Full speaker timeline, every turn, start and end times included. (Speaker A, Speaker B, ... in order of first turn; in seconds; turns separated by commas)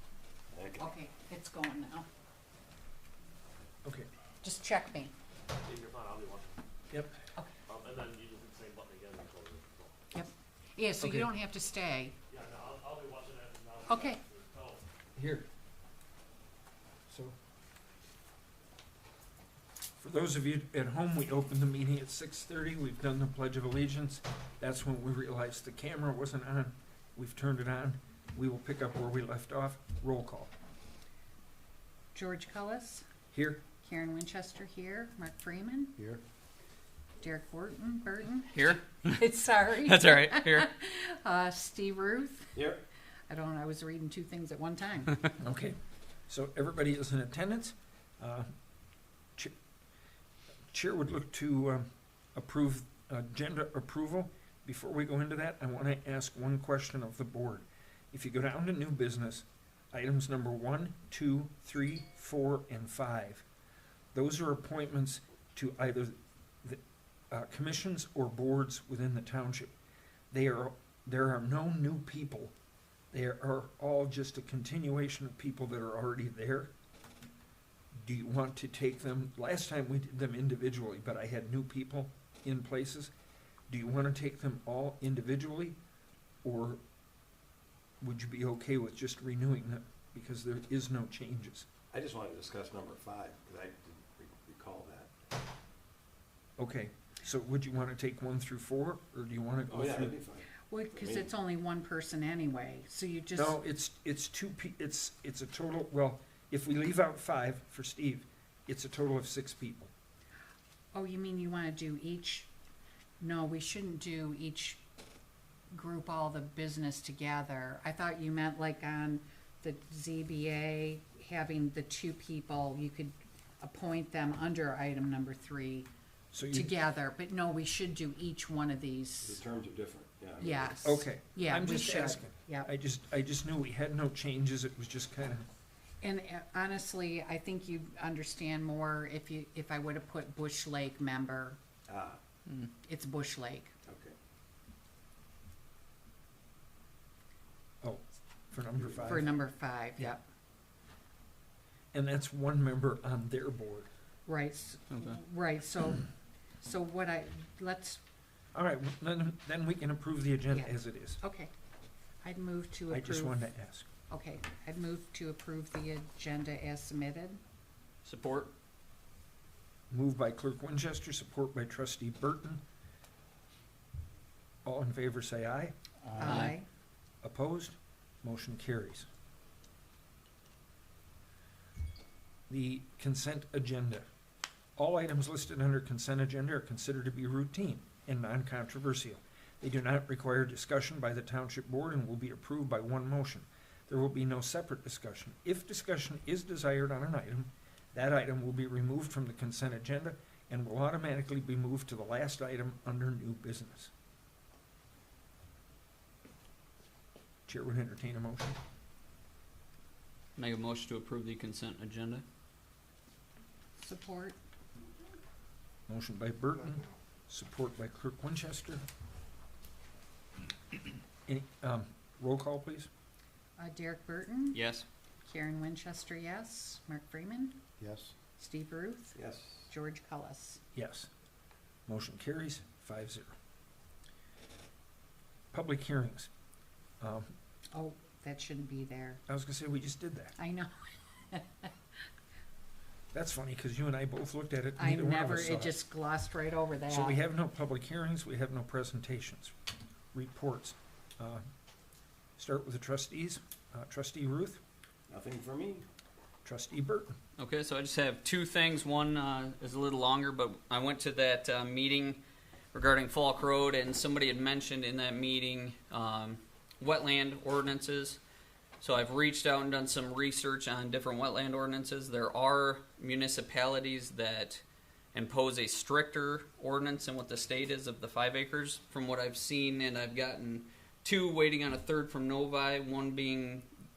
Speaker A: 0.5-0.9, Speaker B: 0.8-2.1, Speaker C: 3.8-4.1, Speaker B: 4.4-5.1, Speaker D: 5.5-6.6, Speaker D: 7.7-10.0, Speaker B: 10.1-12.2, Speaker C: 11.0-11.3, Speaker D: 12.3-14.8, Speaker B: 13.9-14.2, Speaker C: 15.2-15.5, Speaker C: 17.1-17.4, Speaker C: 20.0-30.5, Speaker B: 32.1-33.1, Speaker C: 33.3-33.7, Speaker B: 33.8-36.0, Speaker B: 37.2-42.6, Speaker E: 38.5-39.3, Speaker E: 39.8-40.7, Speaker A: 42.5-42.8, Speaker B: 43.3-45.4, Speaker C: 45.4-48.5, Speaker C: 50.7-63.5, Speaker C: 64.1-69.7, Speaker C: 70.3-72.5, Speaker C: 73.1-76.7, Speaker C: 77.9-83.1, Speaker C: 83.7-85.8, Speaker C: 86.4-86.8, Speaker C: 88.0-91.7, Speaker A: 91.9-95.1, Speaker C: 96.6-100.2, Speaker A: 99.7-101.3, Speaker B: 100.7-103.6, Speaker C: 103.3-109.9, Speaker B: 110.9-112.5, Speaker B: 113.2-114.8, Speaker B: 115.7-125.9, Speaker C: 126.3-126.7, Speaker B: 126.5-129.4, Speaker A: 129.2-130.8, Speaker B: 130.4-132.7, Speaker C: 130.8-135.5, Speaker B: 136.0-141.6, Speaker A: 141.9-142.2, Speaker B: 142.8-143.7, Speaker A: 143.8-144.2, Speaker C: 147.8-149.3, Speaker A: 148.8-149.2, Speaker B: 149.1-150.2, Speaker C: 151.9-153.9, Speaker B: 154.3-156.1, Speaker E: 154.9-155.2, Speaker B: 156.6-158.0, Speaker C: 158.5-161.2, Speaker B: 160.5-161.5, Speaker B: 162.2-163.4, Speaker C: 162.9-163.9, Speaker B: 164.1-167.4, Speaker E: 168.0-168.5, Speaker C: 169.9-172.6, Speaker C: 174.7-175.8, Speaker B: 176.2-176.7, Speaker E: 176.2-176.5, Speaker C: 177.2-179.1, Speaker C: 182.5-184.1, Speaker C: 184.8-203.9, Speaker C: 207.5-208.6, Speaker E: 210.4-212.2, Speaker B: 213.8-214.4, Speaker C: 215.9-218.8, Speaker C: 221.3-222.9, Speaker B: 223.6-224.6, Speaker E: 224.5-224.9, Speaker B: 225.2-227.6, Speaker A: 227.8-228.2, Speaker B: 228.4-229.2, Speaker A: 229.2-229.7, Speaker B: 229.7-230.6, Speaker C: 230.7-231.1, Speaker C: 231.9-233.4, Speaker C: 235.5-236.3, Speaker C: 237.0-237.3, Speaker B: 237.7-239.2, Speaker C: 239.3-240.4, Speaker B: 240.4-241.7, Speaker C: 243.1-245.8, Speaker B: 244.8-247.2, Speaker C: 246.9-249.5, Speaker C: 250.1-251.5, Speaker C: 252.4-254.6, Speaker A: 255.1-255.8, Speaker C: 256.4-257.2, Speaker E: 257.4-262.2, Speaker E: 262.7-268.2, Speaker E: 268.8-274.6, Speaker E: 275.1-283.7